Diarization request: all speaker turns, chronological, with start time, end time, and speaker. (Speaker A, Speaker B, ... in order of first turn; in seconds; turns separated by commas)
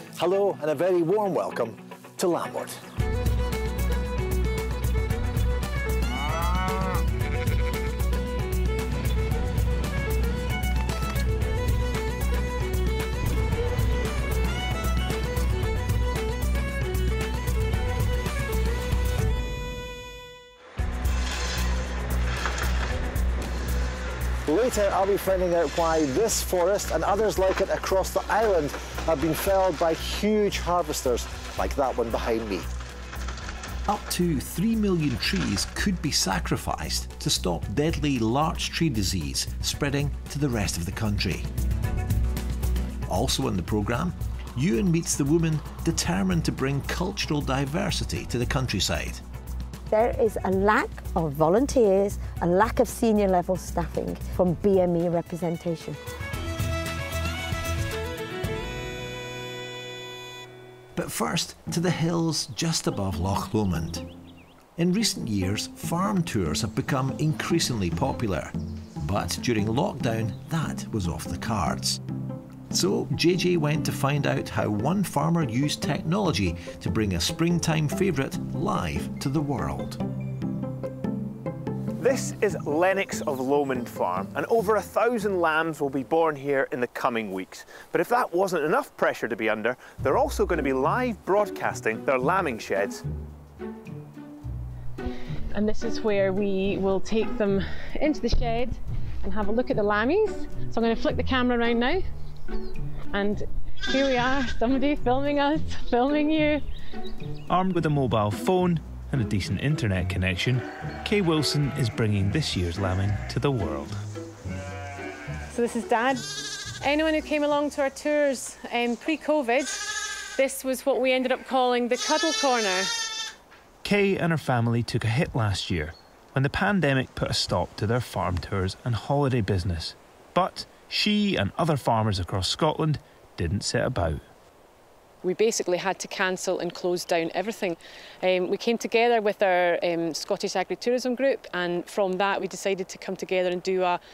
Speaker A: 0.2-2.7, Speaker B: 0.2-1.1, Speaker B: 24.5-32.6, Speaker A: 31.7-32.4, Speaker A: 33.9-41.5, Speaker A: 43.1-49.2, Speaker C: 49.9-56.0, Speaker A: 61.0-64.1, Speaker A: 64.8-72.0, Speaker A: 72.7-80.0, Speaker D: 82.0-93.0, Speaker E: 95.5-102.0, Speaker E: 103.1-106.6, Speaker F: 107.5-114.0, Speaker E: 115.5-116.2, Speaker E: 116.8-122.9, Speaker F: 123.8-134.2, Speaker E: 135.2-144.0